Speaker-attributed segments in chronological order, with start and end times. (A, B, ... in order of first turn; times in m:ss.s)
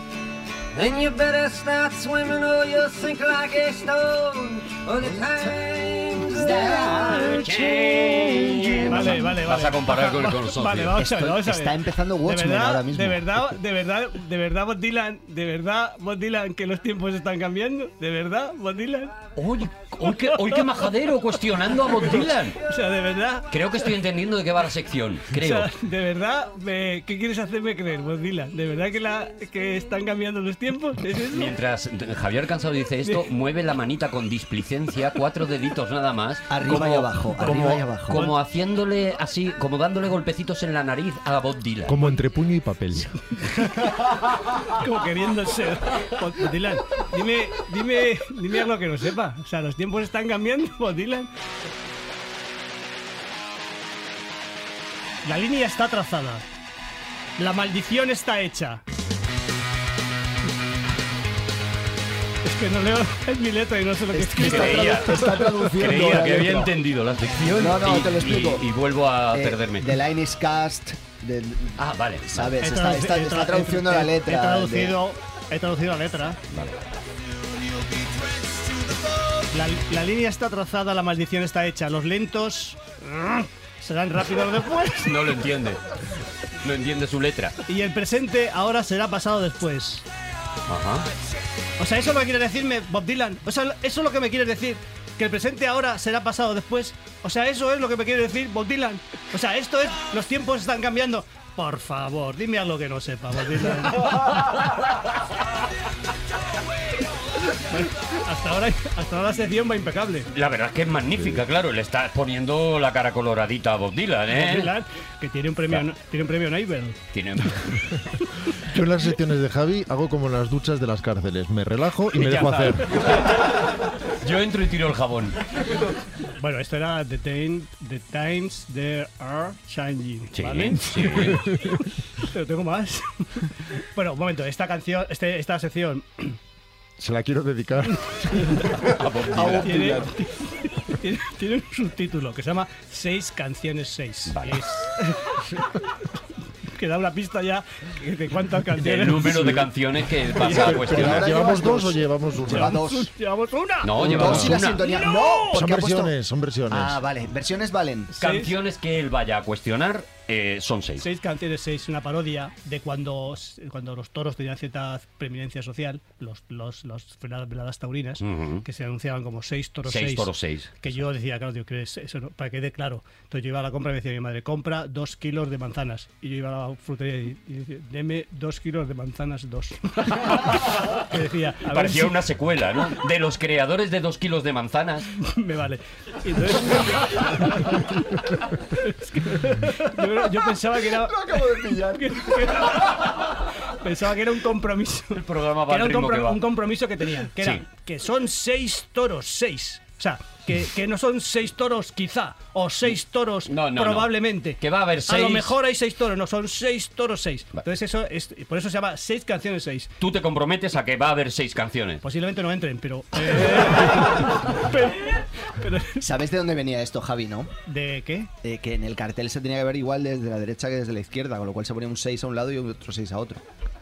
0:00.7-0:09.1 A
0:07.1-0:11.0 B
0:07.1-0:07.4 C
0:08.9-0:19.2 C
0:11.0-0:13.3 D
0:19.4-0:22.6 B
0:20.0-0:20.8 C
0:22.0-0:23.6 C
0:23.5-0:25.7 B
0:25.3-0:31.5 C
0:31.3-0:42.0 B
0:36.5-0:38.2 D
0:37.5-0:38.4 C
0:41.8-0:43.2 E
0:43.4-0:44.2 C
0:44.7-0:51.3 C
0:55.2-0:56.4 C
0:57.4-0:58.8 C
1:02.4-1:05.0 C
1:04.1-1:06.7 D
1:04.4-1:10.0 B
1:07.5-1:08.6 D
1:09.3-1:15.0 D
1:11.8-1:12.6 B
1:12.6-1:16.4 C
1:16.5-1:16.8 B
1:19.5-1:25.4 C
1:25.0-1:25.8 B
1:26.6-1:27.6 B
1:27.7-1:30.0 C
1:30.7-1:31.1 B
1:31.8-1:44.6 C
1:47.5-1:50.3 C
1:50.3-1:54.7 B
1:54.3-1:57.0 C
1:57.1-1:57.9 B
1:58.6-2:03.0 E
2:02.1-2:05.4 B
2:06.3-2:16.4 C
2:10.3-2:11.4 B
2:17.0-2:18.9 E
2:18.2-2:18.8 C
2:18.8-2:19.9 B
2:19.2-2:20.1 D
2:19.6-2:25.6 C
2:24.3-2:24.6 B
2:26.7-2:29.7 C
2:28.8-2:31.3 B
2:30.4-2:30.6 C
2:30.5-2:32.8 E
2:30.5-2:33.1 D
2:32.5-2:34.0 C
2:33.8-2:34.9 B
2:34.0-2:36.1 D
2:34.0-2:34.6 E
2:34.6-2:35.6 C
2:35.5-2:37.0 E
2:36.7-2:38.1 D
2:38.1-2:38.5 C
2:38.2-2:41.0 B
2:41.0-3:02.2 C
2:48.2-2:48.6 B
2:49.8-2:51.0 B
3:01.7-3:05.1 B
3:05.2-3:29.9 C
3:10.9-3:12.4 D
3:15.1-3:16.4 B
3:23.5-3:25.6 B
3:30.0-3:32.0 B
3:32.0-3:36.0 C
3:36.0-3:37.5 D
3:37.7-3:38.3 C
3:38.4-3:43.4 D